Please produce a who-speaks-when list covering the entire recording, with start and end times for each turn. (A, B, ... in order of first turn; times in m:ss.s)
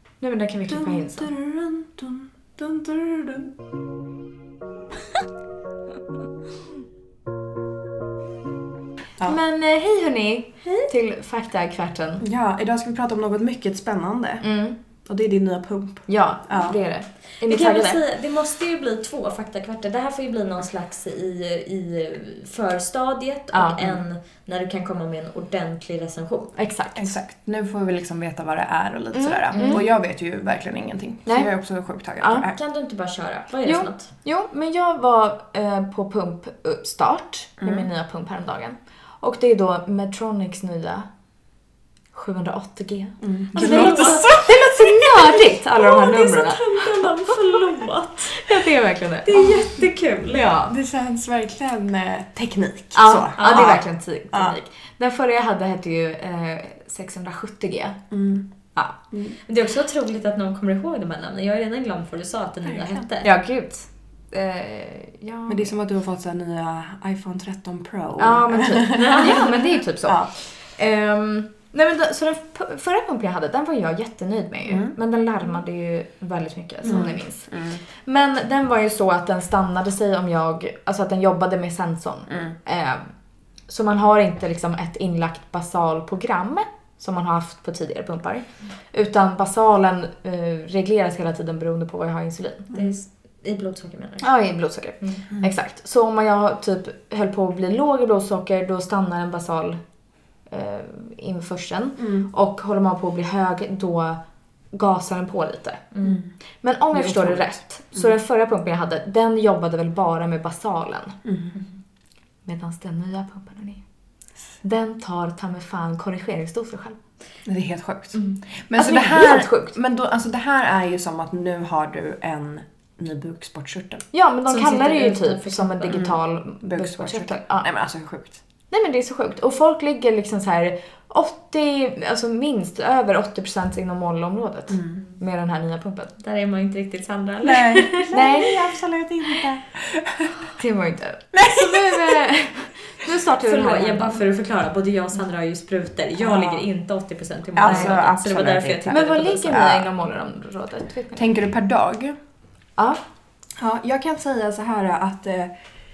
0:00.2-0:01.3 A
0:00.7-0:03.5 B
0:09.2-0:12.2 A
0:10.6-0:10.9 C
0:12.2-0:14.4 B
0:14.4-0:14.8 A
0:15.0-0:16.8 B
0:16.1-0:18.0 A
0:17.5-0:26.5 C
0:23.5-0:23.8 A
0:26.6-0:27.2 A
0:26.9-0:32.6 B
0:29.1-0:29.8 A
0:29.5-0:29.8 C
0:32.2-0:32.5 A
0:32.5-0:34.1 C
0:33.6-0:41.1 A
0:37.6-0:37.8 B
0:42.1-0:47.6 A
0:43.2-0:45.4 B
0:43.5-0:44.3 C
0:45.7-0:50.4 C
0:48.2-0:49.7 A
0:50.2-0:50.8 A
0:50.7-0:54.6 B
0:52.9-0:58.0 A
0:53.4-0:53.8 C
0:58.1-0:58.5 B
0:58.7-0:59.0 A
0:59.4-1:03.3 C
1:02.7-1:03.0 B
1:03.2-1:05.7 A
1:05.5-1:10.3 B
1:08.2-1:23.1 A
1:09.0-1:09.5 C
1:14.6-1:15.0 B
1:16.8-1:17.8 B
1:22.3-1:22.5 B
1:23.7-1:32.7 A
1:32.7-1:34.3 C
1:34.2-1:39.8 A
1:40.5-1:44.2 A
1:42.0-1:42.3 B
1:44.7-1:45.9 A
1:45.9-1:46.2 C
1:46.0-1:46.3 B
1:46.6-1:51.2 A
1:46.9-1:48.0 B
1:51.2-1:51.5 B
1:52.4-1:53.8 A
1:54.6-1:57.0 A
1:57.4-2:04.0 B
1:58.8-1:59.7 A
2:04.1-2:07.7 A
2:04.5-2:06.1 C
2:05.9-2:08.4 B
2:08.7-2:16.1 A
2:16.2-2:18.2 C
2:17.4-2:20.4 B
2:18.1-2:18.6 A
2:20.6-2:24.2 A
2:21.3-2:22.3 B
2:23.4-2:29.5 C
2:26.2-2:26.7 B
2:27.6-2:29.9 B
2:27.6-2:28.0 A
2:28.9-2:31.3 A
2:31.1-2:32.2 B
2:33.6-2:35.5 B